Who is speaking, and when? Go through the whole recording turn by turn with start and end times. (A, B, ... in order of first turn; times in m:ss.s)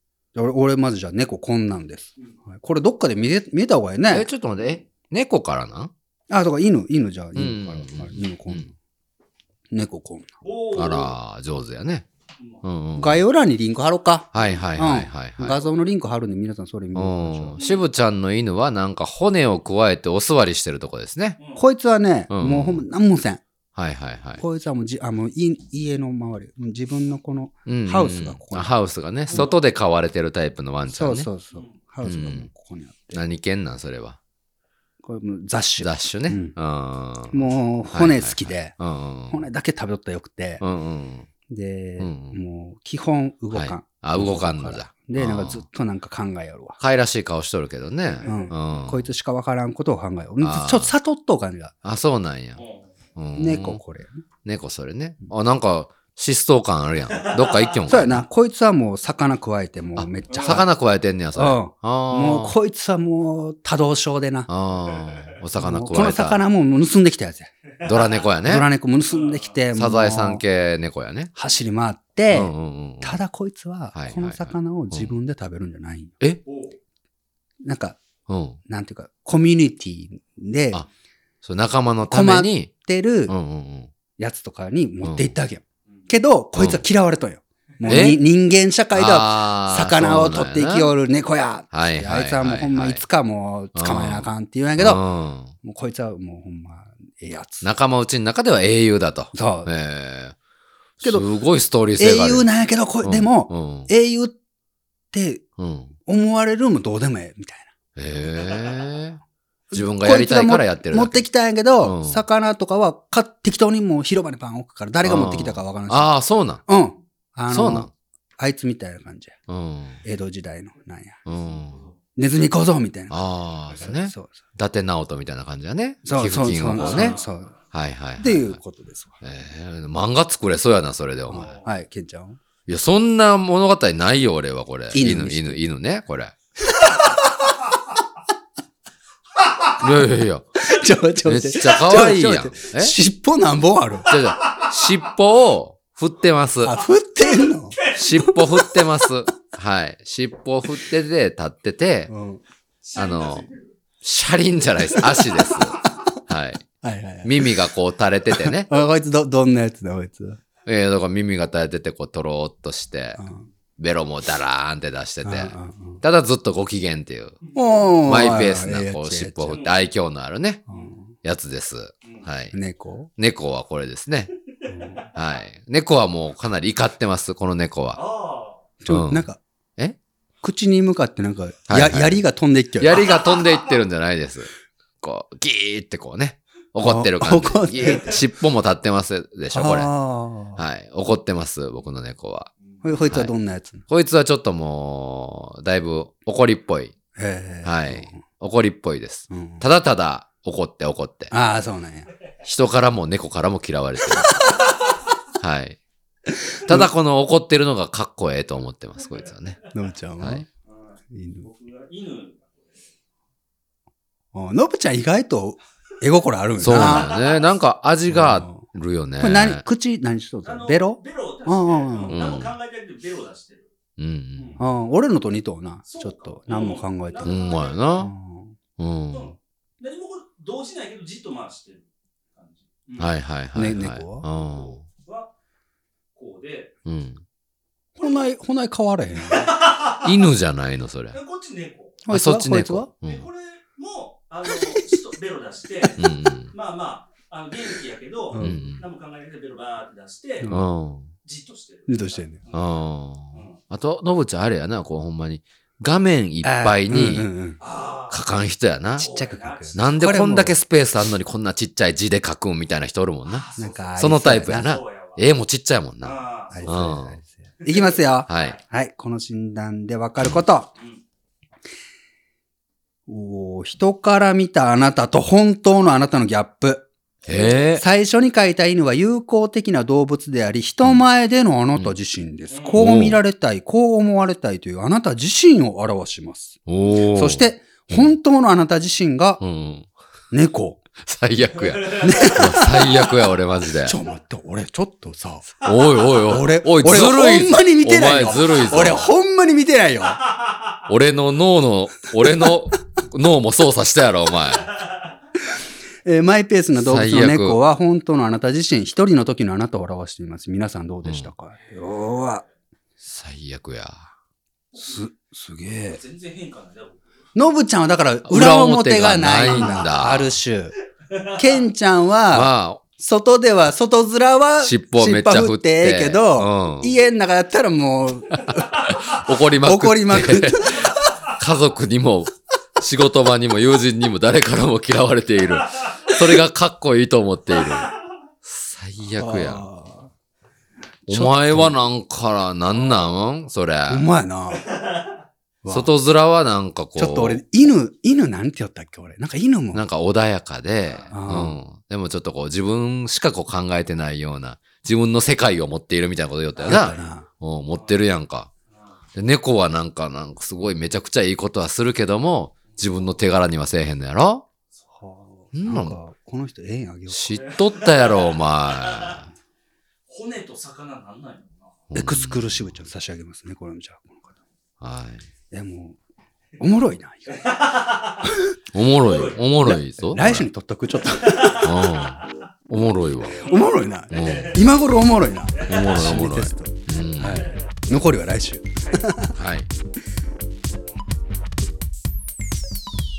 0:00.3-0:04.3 A
0:04.1-0:05.9 B
0:06.3-0:08.7 A
0:07.3-0:08.7 B
0:09.7-0:10.3 A
0:10.4-0:11.1 C
0:10.7-0:12.0 B
0:12.6-0:13.2 B
0:13.0-0:17.6 A
0:14.3-0:15.6 B
0:16.9-0:21.4 B
0:17.6-0:17.8 C
0:21.5-0:23.4 A
0:22.3-0:22.8 B
0:23.7-0:24.4 B
0:24.4-0:28.7 A
0:27.7-0:31.3 B
0:30.9-0:33.2 A
0:32.0-0:32.5 B
0:33.1-0:34.2 B
0:35.0-0:36.6 A
0:35.8-0:39.4 B
0:37.3-0:38.8 A
0:39.3-0:40.6 A
0:40.6-0:41.3 B
0:41.5-0:46.8 A
0:42.0-0:42.4 B
0:43.5-0:45.6 B
0:46.8-0:49.1 B
0:48.2-0:48.5 C
0:48.2-0:51.7 A
0:50.4-0:50.9 B
0:51.8-0:52.6 B
0:52.6-0:52.9 C
0:53.2-0:53.8 B
0:53.4-0:54.2 A
0:54.4-0:58.2 B
0:57.1-0:57.8 C
0:57.9-1:00.7 A
1:00.0-1:02.5 B
1:00.3-1:00.6 C
1:01.3-1:04.5 A
1:04.5-1:06.4 B
1:05.0-1:05.3 C
1:05.6-1:07.5 A
1:07.7-1:08.2 C
1:07.8-1:08.7 B
1:08.4-1:10.4 A
1:09.1-1:09.6 C
1:09.7-1:11.3 B
1:11.4-1:16.1 A
1:12.3-1:13.2 B
1:13.9-1:15.1 B
1:16.4-1:16.8 C
1:17.6-1:18.0 A
1:18.3-1:18.6 B
1:18.7-1:20.8 A
1:21.4-1:22.7 B
1:22.0-1:23.3 A
1:23.3-1:23.9 B
1:24.2-1:35.0 A
1:25.0-1:25.3 B
1:26.6-1:26.8 B
1:27.8-1:28.2 B
1:28.9-1:30.9 B
1:31.7-1:33.0 B
1:33.7-1:35.5 B
1:35.6-1:37.7 A
1:37.6-1:40.4 B
1:39.3-1:39.7 A
1:41.0-1:42.4 B
1:41.0-1:41.3 A
1:42.0-1:44.4 A
1:43.0-1:43.9 B
1:45.1-1:45.4 A
1:45.6-1:45.9 B
1:46.0-1:47.7 A
1:48.0-1:49.2 B
1:49.7-1:56.1 A
1:49.7-1:51.2 B
1:51.8-1:52.2 B
1:55.0-1:56.6 B
1:56.6-1:59.4 A
1:57.5-1:57.9 B
1:59.5-2:00.0 B
2:00.0-2:01.2 A
2:01.2-2:01.8 B
2:01.4-2:01.9 C
2:02.1-2:03.2 A
2:03.1-2:07.2 B
2:03.8-2:04.4 A
2:06.0-2:07.5 A
2:06.7-2:07.3 C
2:07.7-2:08.6 B
2:08.2-2:09.2 A
2:09.2-2:11.6 B
2:11.3-2:12.4 A
2:12.7-2:16.3 B
2:14.9-2:15.6 A
2:16.6-2:17.5 A
2:19.8-2:20.7 B
2:20.6-2:24.1 A
2:21.2-2:22.9 B
2:24.1-2:26.8 B
2:24.4-2:24.8 C
2:26.6-2:27.8 A
2:27.5-2:28.0 C
2:27.9-2:32.1 B
2:32.1-2:32.4 A
2:32.8-2:33.7 C
2:32.9-2:33.5 B
2:34.0-2:36.6 B
2:35.0-2:35.3 C
2:36.8-2:37.6 A
2:37.2-2:38.8 B
2:38.3-2:40.4 A
2:40.6-2:43.2 B
2:43.2-2:43.4 A
2:43.8-2:47.4 B
2:45.2-2:46.0 A
2:47.4-2:47.7 C
2:47.5-2:49.6 A
2:48.0-2:50.6 B
2:49.5-2:49.8 C
2:50.7-2:51.1 A
2:51.2-2:52.6 B
2:52.5-2:53.1 A
2:53.2-2:54.3 B
2:54.6-2:55.1 A
2:55.1-2:58.0 B
2:57.9-2:58.6 C
2:58.8-2:59.4 A
2:58.9-2:59.2 B
3:00.4-3:03.0 A
3:01.7-3:02.2 B
3:02.8-3:04.5 B
3:02.9-3:03.7 C
3:05.0-3:09.9 B
3:06.8-3:08.1 A
3:07.8-3:08.2 C
3:09.5-3:10.6 A
3:10.5-3:12.5 B
3:12.8-3:13.8 A
3:13.9-3:16.9 B
3:17.2-3:18.2 A
3:17.6-3:21.3 B
3:19.3-3:19.6 A
3:21.3-3:22.1 A
3:22.4-3:24.4 B
3:25.4-3:25.8 B
3:26.4-3:26.9 A
3:26.6-3:29.6 B
3:29.1-3:29.7 C
3:29.7-3:30.4 A
3:30.6-3:32.8 C
3:31.1-3:31.5 A
3:34.3-3:37.2 A
3:36.6-3:39.6 B
3:36.7-3:37.5 C
3:38.1-3:38.6 A
3:39.2-3:42.2 A
3:40.4-3:43.7 C
3:42.1-3:42.5 B
3:44.0-3:44.6 B
3:44.3-3:44.6 C
3:44.6-3:47.4 A
3:45.9-3:47.9 C
3:47.2-3:48.1 B
3:47.9-3:48.6 A
3:48.8-3:49.3 B
3:49.1-3:53.1 C
3:53.0-3:54.8 B
3:53.5-3:54.2 A
3:54.4-3:55.3 C
3:56.1-3:56.7 C
3:56.8-3:57.2 B
3:58.0-3:59.6 A
3:59.3-4:00.2 C
4:00.0-4:01.2 B
4:01.1-4:02.0 C
4:02.0-4:02.9 A
4:02.1-4:03.3 B
4:03.0-4:10.5 C
4:06.0-4:06.5 B
4:08.3-4:08.6 A
4:08.4-4:08.8 B
4:10.4-4:10.7 A
4:10.5-4:11.1 B
4:11.2-4:12.8 C
4:11.9-4:12.4 A
4:12.5-4:17.3 B
4:13.3-4:13.6 C
4:16.4-4:17.6 A
4:17.6-4:18.2 C
4:18.1-4:19.1 B
4:19.0-4:20.2 C
4:19.0-4:20.5 A
4:19.7-4:27.2 B
4:23.2-4:24.0 C
4:23.6-4:24.7 A
4:24.5-4:25.2 C
4:26.0-4:26.6 C
4:26.5-4:30.7 A
4:27.6-4:27.9 C
4:28.3-4:28.6 B
4:33.1-4:46.6 A
4:37.2-4:37.8 B
4:42.5-4:42.8 C
4:42.8-4:43.2 B
4:46.7-4:48.1 B
4:47.1-4:49.4 A
4:49.4-4:49.9 B
4:50.3-4:50.8 A
4:51.0-4:54.0 B
4:51.6-4:52.3 C
4:52.0-4:53.1 A
4:53.8-4:55.6 A
4:55.6-4:59.1 B
4:56.2-5:00.2 A
5:00.9-5:04.7 B
5:06.0-5:12.4 A
5:06.8-5:07.6 B
5:11.0-5:11.3 B
5:13.0-5:14.1 B
5:14.7-5:15.0 C
5:14.8-5:16.0 A
5:15.9-5:17.0 C
5:17.4-5:20.8 A
5:18.2-5:20.3 B
5:21.1-5:21.4 C
5:21.3-5:30.9 A
5:22.3-5:22.8 B
5:24.6-5:27.0 B
5:28.4-5:37.9 B
5:38.4-5:39.6 B
5:39.1-5:40.1 A
5:41.1-5:41.8 A
5:41.1-5:44.0 B
5:43.9-5:44.7 A
5:44.7-5:45.1 C
5:45.6-5:45.9 A
5:45.7-5:47.4 B
5:47.0-5:49.8 A
5:49.7-5:58.5 B
5:50.8-5:51.2 C
5:51.1-5:51.6 A
5:56.5-5:56.9 C
5:56.6-5:57.2 A
5:57.7-5:58.0 C
5:58.7-5:59.0 C
5:59.1-6:04.4 B
6:02.7-6:02.9 C
6:05.0-6:07.4 A
6:05.5-6:06.0 B
6:07.1-6:09.3 B
6:07.4-6:09.2 C
6:10.1-6:11.8 C
6:11.9-6:12.8 B
6:11.9-6:14.4 A
6:14.8-6:15.2 B
6:15.5-6:16.0 A
6:16.6-6:17.6 A
6:17.3-6:18.3 C
6:18.2-6:18.5 A
6:18.7-6:20.5 B
6:19.0-6:19.4 C
6:19.6-6:21.7 A
6:21.1-6:22.3 C
6:21.6-6:23.4 B
6:23.4-6:29.3 A
6:23.4-6:24.6 C
6:24.1-6:24.6 B
6:25.5-6:26.1 C
6:25.6-6:27.5 B
6:27.2-6:27.7 C
6:29.3-6:29.7 B